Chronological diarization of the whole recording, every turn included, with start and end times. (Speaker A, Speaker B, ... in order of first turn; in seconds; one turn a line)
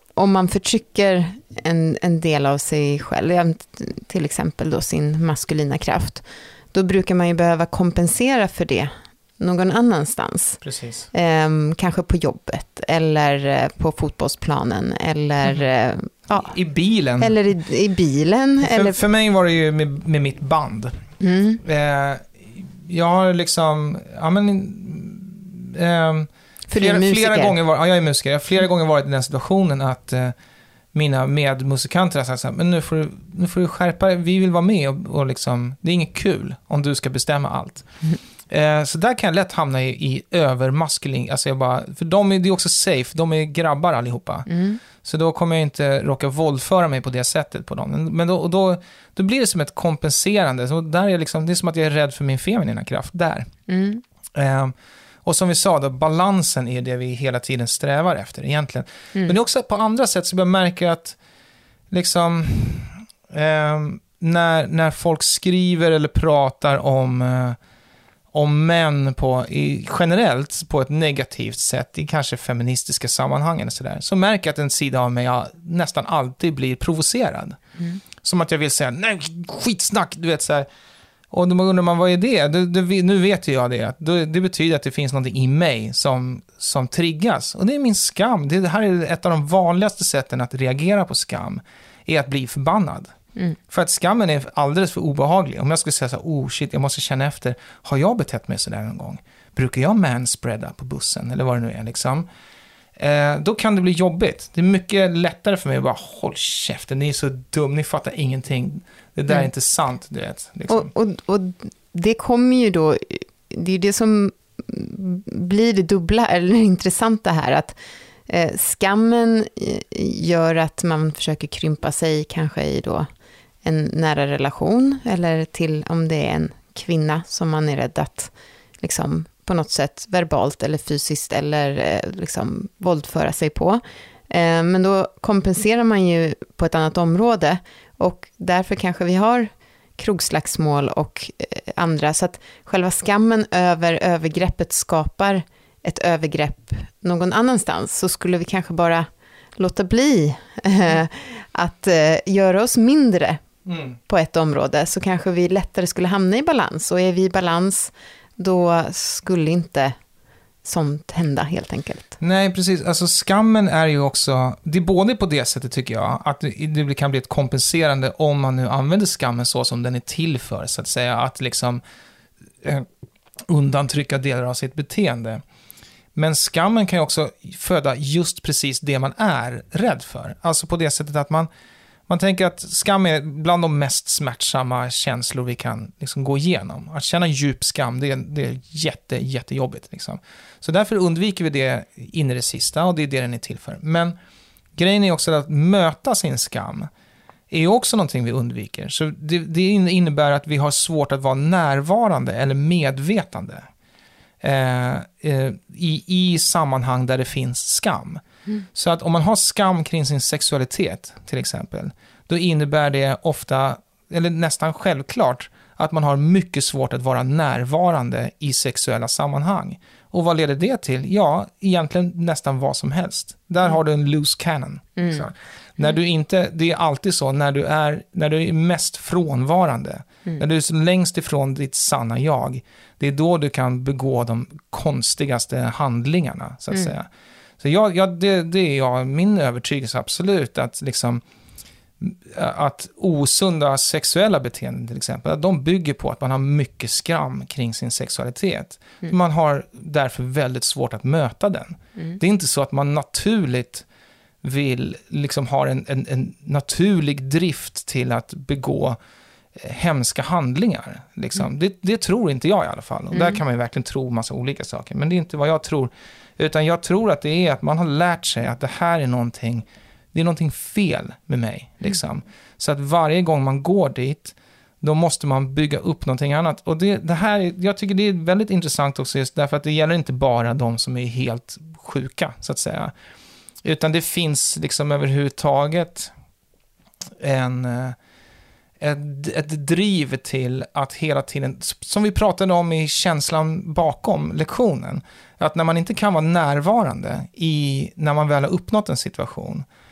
Speaker A: 0.1-10.6
Speaker B: 10.6-11.1
Speaker A: 11.1-16.5
Speaker B: 16.3-17.4
Speaker A: 17.2-19.0
Speaker B: 18.6-21.0
Speaker A: 21.2-21.6
Speaker B: 21.6-30.3
Speaker A: 26.7-27.6
Speaker B: 30.9-37.9
Speaker B: 38.5-53.5
Speaker A: 44.5-44.8
Speaker A: 53.7-54.0
Speaker B: 54.3-54.7
Speaker B: 55.2-61.2
Speaker B: 61.9-67.6
Speaker B: 68.3-77.6
Speaker B: 78.2-80.7
Speaker B: 81.3-93.1
Speaker B: 93.7-102.3
Speaker B: 103.0-110.9
Speaker A: 110.7-117.8
Speaker A: 118.3-123.0
Speaker A: 123.6-153.4
Speaker B: 153.7-154.0
Speaker A: 154.1-159.9
Speaker A: 160.6-162.2
Speaker B: 162.2-171.8
Speaker B: 173.5-175.4
Speaker B: 176.1-181.5
Speaker B: 182.1-194.1
Speaker B: 194.8-196.9
Speaker B: 197.5-203.7
Speaker B: 204.4-237.1
Speaker B: 237.6-241.2
Speaker B: 242.0-253.8
Speaker B: 254.4-259.0
Speaker B: 259.5-282.9
Speaker A: 263.1-263.4
Speaker B: 283.6-286.1
Speaker B: 287.2-288.0
Speaker B: 288.8-299.6